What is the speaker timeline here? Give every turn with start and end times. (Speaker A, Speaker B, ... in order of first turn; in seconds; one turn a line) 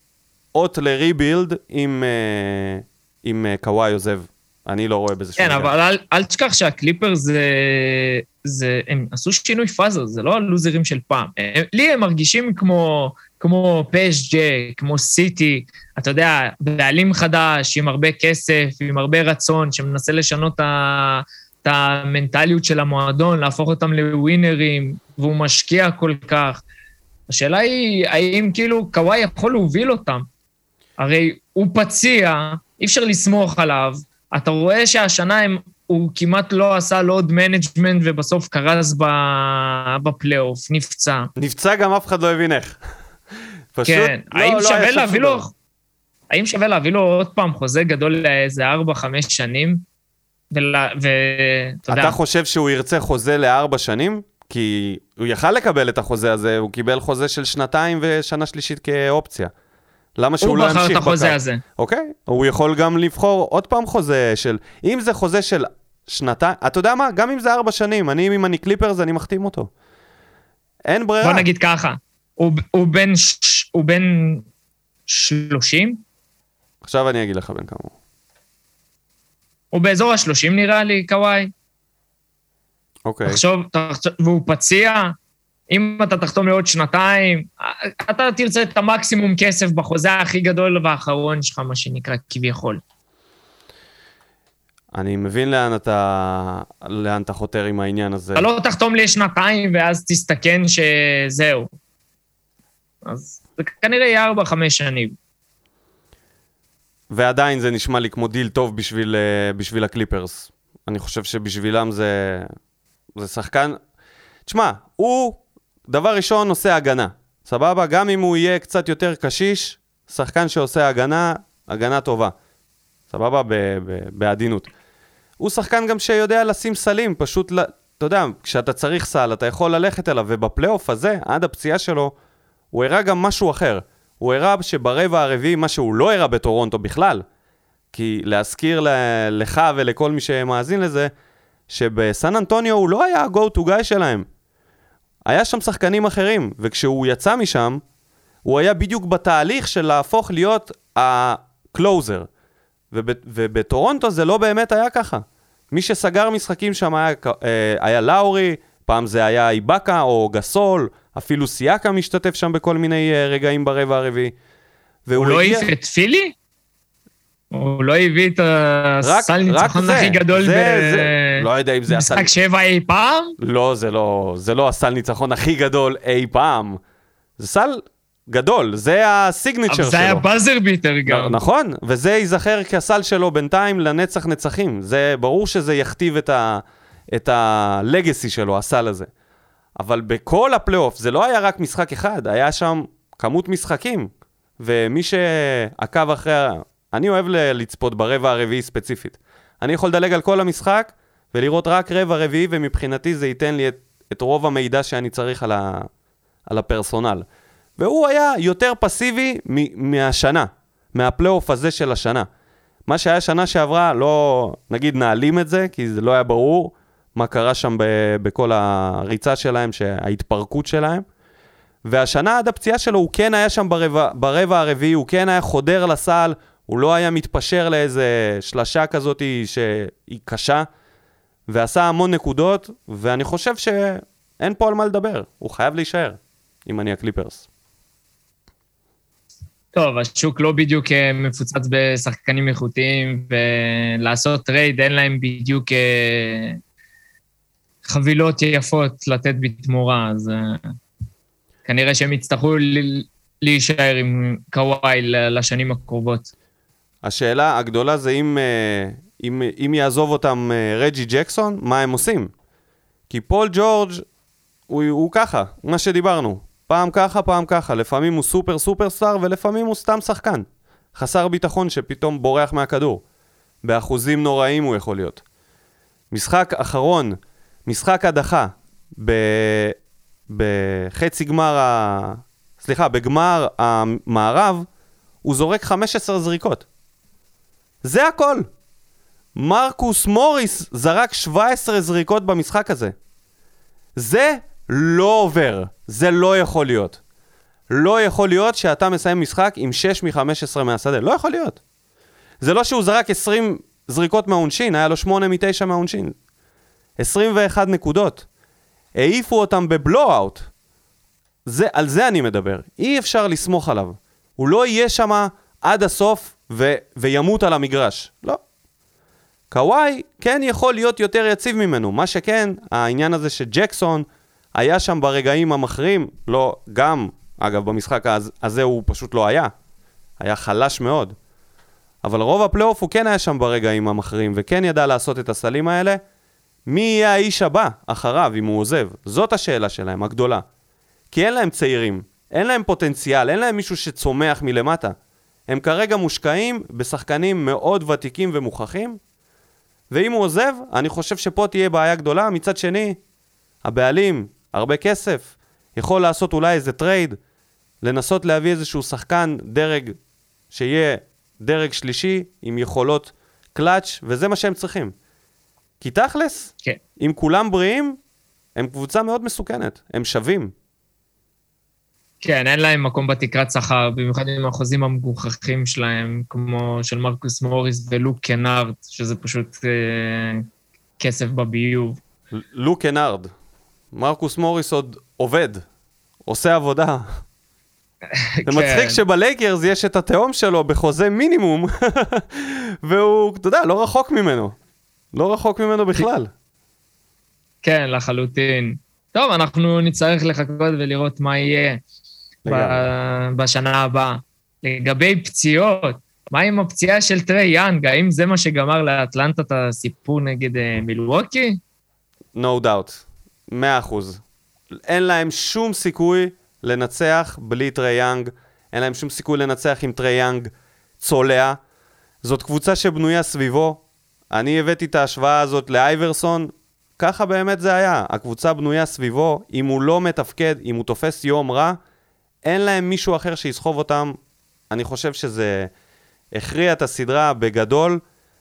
Speaker A: 0.5-5.7
Speaker B: 5.4-26.6
Speaker B: 27.3-30.2
Speaker B: 31.0-41.3
Speaker A: 41.4-42.8
Speaker A: 43.7-45.5
Speaker B: 43.9-45.5
Speaker B: 46.3-49.8
Speaker B: 50.5-52.2
Speaker A: 51.9-59.5
Speaker A: 60.2-69.7
Speaker B: 60.4-61.6
Speaker A: 70.8-71.5
Speaker B: 71.2-74.4
Speaker B: 75.1-76.0
Speaker A: 76.8-77.9
Speaker B: 79.7-81.5
Speaker A: 83.0-83.4
Speaker B: 83.2-85.1
Speaker B: 85.7-92.8
Speaker A: 94.9-98.5
Speaker B: 98.3-101.7
Speaker B: 103.0-105.1
Speaker A: 107.1-112.5
Speaker A: 113.2-113.8
Speaker A: 114.5-122.3
Speaker A: 123.1-124.7
Speaker A: 125.4-132.1
Speaker A: 132.7-137.2
Speaker A: 137.9-141.1
Speaker A: 141.7-144.2
Speaker A: 145.2-147.8
Speaker A: 148.4-152.3
Speaker A: 152.9-164.3
Speaker A: 165.1-165.7
Speaker B: 165.1-166.3
Speaker B: 167.5-173.3
Speaker A: 169.0-172.3
Speaker A: 173.4-176.8
Speaker A: 177.4-180.2
Speaker B: 179.7-181.4
Speaker A: 181.1-189.1
Speaker A: 189.8-205.9
Speaker A: 206.5-207.2
Speaker A: 207.8-212.3
Speaker A: 212.9-221.0
Speaker A: 221.8-230.7
Speaker A: 231.5-237.4
Speaker B: 239.7-246.6
Speaker B: 247.8-250.6
Speaker B: 251.7-256.3
Speaker A: 257.0-262.3
Speaker A: 263.1-264.0
Speaker A: 264.7-273.0
Speaker A: 273.6-275.2
Speaker A: 276.1-279.8
Speaker A: 280.3-284.7
Speaker A: 285.2-286.6
Speaker A: 287.8-288.5
Speaker A: 289.4-292.9
Speaker A: 293.9-297.0
Speaker A: 297.7-301.6
Speaker A: 302.4-306.1
Speaker A: 307.0-308.2
Speaker A: 308.9-310.5
Speaker A: 311.4-318.4
Speaker A: 319.5-329.5
Speaker A: 330.2-331.1
Speaker A: 332.0-336.0
Speaker A: 336.7-340.4
Speaker A: 341.1-344.9
Speaker A: 345.5-349.0
Speaker A: 349.9-353.0
Speaker A: 353.6-357.2
Speaker A: 357.8-359.9
Speaker A: 360.5-364.9
Speaker A: 365.8-368.0
Speaker A: 368.6-370.5
Speaker B: 372.2-380.4
Speaker B: 381.0-382.0
Speaker A: 382.4-383.3
Speaker A: 383.9-385.6
Speaker A: 386.2-387.1
Speaker B: 388.2-389.0
Speaker A: 388.4-394.5
Speaker A: 395.1-396.3
Speaker B: 397.6-401.8
Speaker A: 402.4-402.9
Speaker B: 402.5-411.6
Speaker A: 412.3-414.2
Speaker A: 414.8-421.6
Speaker A: 422.2-431.8
Speaker A: 432.4-434.1
Speaker A: 434.7-435.7
Speaker A: 436.3-438.0